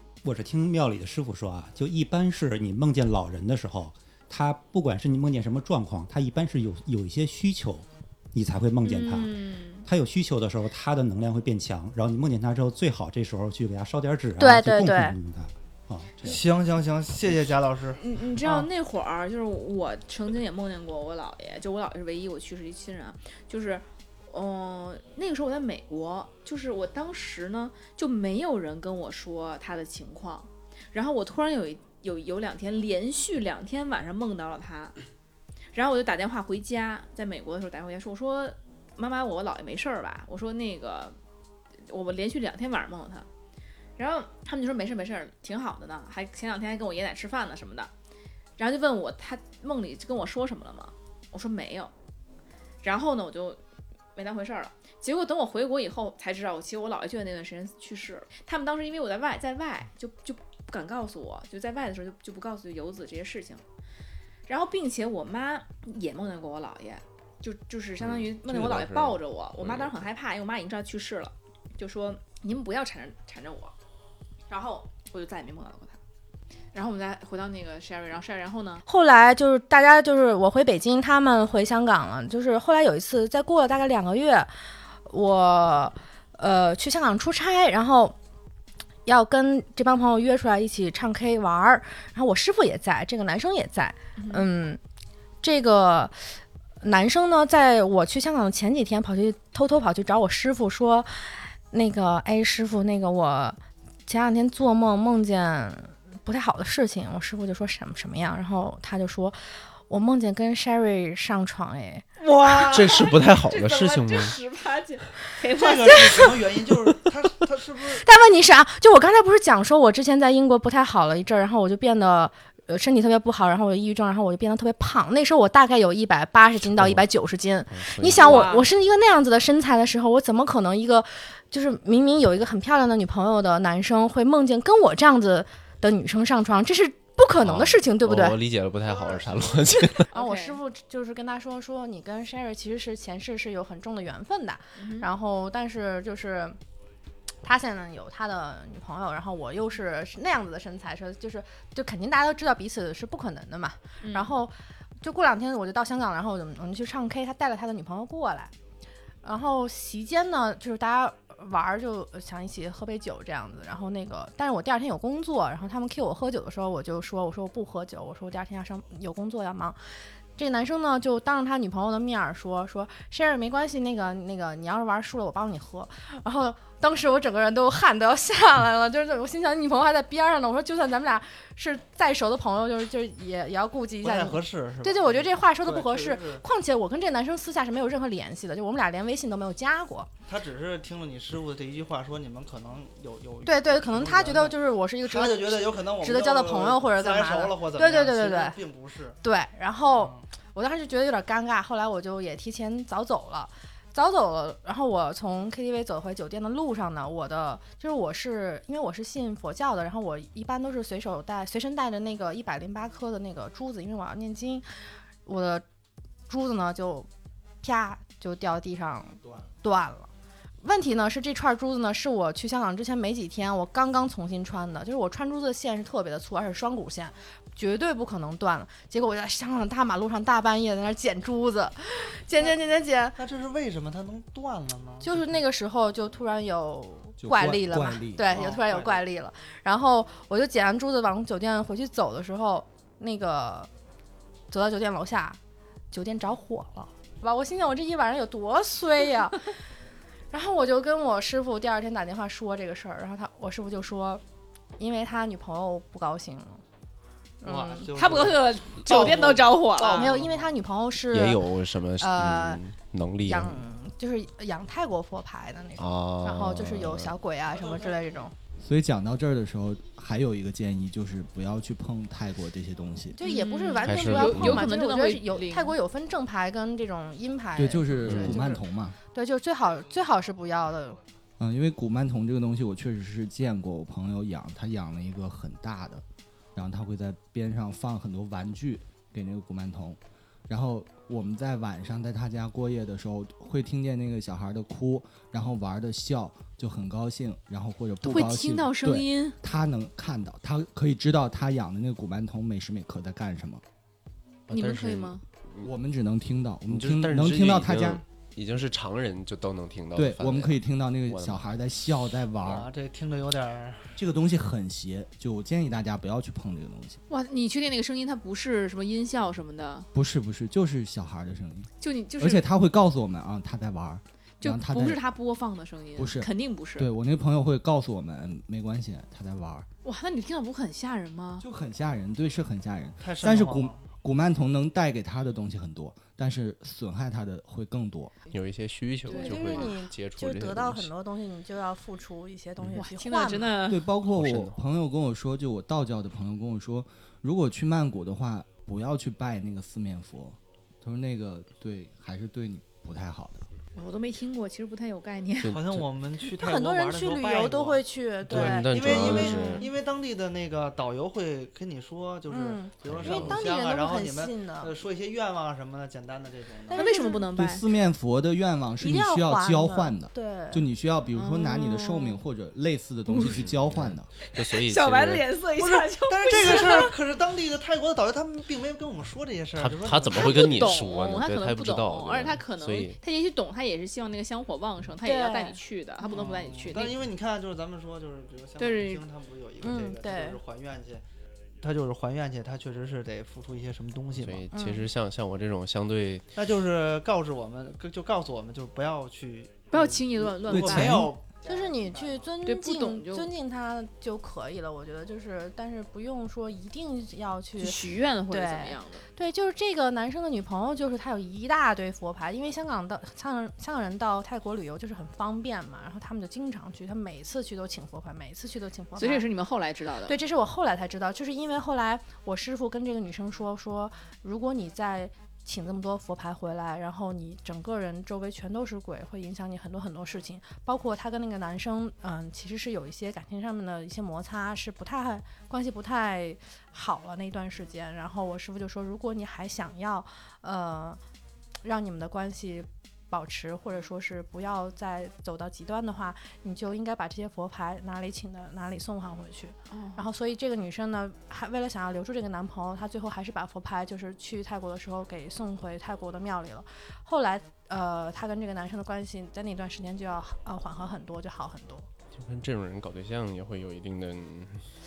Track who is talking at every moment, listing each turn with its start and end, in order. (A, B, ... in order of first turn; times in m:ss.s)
0:00.2-0:16.4 A
0:08.8-0:09.9 B
0:14.4-0:15.2 C
0:16.2-0:18.7 D
0:18.0-0:35.0 B
0:35.7-0:41.2 B
0:41.9-0:43.3 B
0:44.0-0:47.9 B
0:48.6-0:51.9 B
0:52.8-0:53.6 B
0:54.2-1:03.6 B
1:04.5-1:13.7 B
1:08.0-1:10.0 E
1:14.5-1:16.0 B
1:16.7-1:18.8 B
1:18.9-1:24.5 C
1:25.1-1:28.2 C
1:29.0-1:34.8 C
1:34.2-1:34.5 B
1:35.4-1:36.1 C
1:36.8-1:49.4 C
1:49.9-1:52.0 C
1:52.2-1:52.9 D
1:52.5-1:56.2 B
1:52.6-1:54.4 E
1:55.5-1:58.0 D
1:56.0-1:56.3 C
1:58.0-2:18.4 C
2:06.6-2:07.0 E
2:07.7-2:08.5 E
2:08.1-2:08.7 B
2:17.4-2:20.1 E
2:18.9-2:19.6 D
2:20.1-2:20.6 B
2:20.1-2:26.6 C
2:24.8-2:25.1 B
2:27.4-2:38.5 C
2:34.0-2:34.3 B
2:39.2-2:49.8 C
2:50.4-3:10.1 C
3:04.0-3:06.4 D
3:10.3-3:19.2 D
3:13.4-3:18.6 C
3:19.2-3:34.6 C
3:19.9-3:20.2 D
3:35.2-3:35.6 C
3:36.3-3:37.1 C
3:37.6-3:40.1 C
3:40.6-3:53.2 C
3:53.2-3:55.3 D
3:55.0-4:03.7 C
3:57.2-3:58.3 F
3:58.3-3:59.0 D
4:04.5-4:05.4 C
4:05.9-4:09.5 C
4:10.3-4:14.2 C
4:14.8-4:16.6 C
4:17.4-4:17.9 C
4:17.4-4:20.6 D
4:17.9-4:20.1 B
4:19.9-4:22.6 C
4:21.1-4:23.6 E
4:23.2-4:28.3 C
4:25.8-4:27.1 E
4:27.5-4:28.2 D
4:28.6-4:33.2 F
4:33.1-4:41.0 C
4:33.2-4:35.8 B
4:33.8-4:34.6 E
4:37.6-4:39.0 F
4:38.0-4:38.4 E
4:41.4-4:46.0 F
4:46.5-5:03.6 F
4:58.0-4:59.4 B
5:04.5-5:05.7 E
5:04.5-5:05.2 B
5:05.6-5:08.0 F
5:06.7-5:11.5 E
5:09.9-5:12.7 F
5:12.4-5:14.0 D
5:14.0-5:17.0 F
5:17.1-5:19.9 B
5:19.9-5:25.0 F
5:21.8-5:22.4 B
5:24.4-5:26.9 B
5:26.0-5:29.6 F
5:29.8-5:31.4 B
5:31.4-5:38.1 F
5:33.0-5:33.8 D
5:38.3-5:40.9 E
5:39.0-5:39.7 B
5:39.1-5:43.5 C
5:42.7-5:43.9 B
5:43.7-5:53.4 F
5:44.1-5:44.6 E
5:53.7-5:55.5 B
5:55.4-5:55.8 E
5:55.5-6:07.0 D
5:56.3-5:59.7 C
5:58.3-5:59.7 E
5:59.4-5:59.6 B
6:02.3-6:04.7 C
6:02.8-6:03.4 E
6:06.7-6:07.2 C
6:06.7-6:07.6 B
6:07.3-6:14.1 F
6:08.8-6:10.6 C
6:11.1-6:12.2 B
6:13.1-6:13.3 B
6:13.2-6:15.3 E
6:14.3-6:16.9 B
6:15.6-6:20.8 D
6:19.6-6:23.0 E
6:20.1-6:27.0 B
6:25.0-6:26.3 C
6:26.1-6:31.0 D
6:28.6-6:29.0 B
6:29.6-6:30.4 C
6:31.6-6:34.5 D
6:34.1-6:36.3 E
6:34.5-6:34.9 C
6:36.3-6:42.3 D
6:39.7-6:41.1 B
6:40.5-6:41.1 F
6:41.4-6:59.3 C
6:42.4-6:43.3 B
6:47.6-6:49.0 B
6:59.0-7:00.2 B
7:00.0-7:21.0 C
7:21.6-7:41.8 C
7:29.7-7:30.1 B
7:42.1-7:44.7 E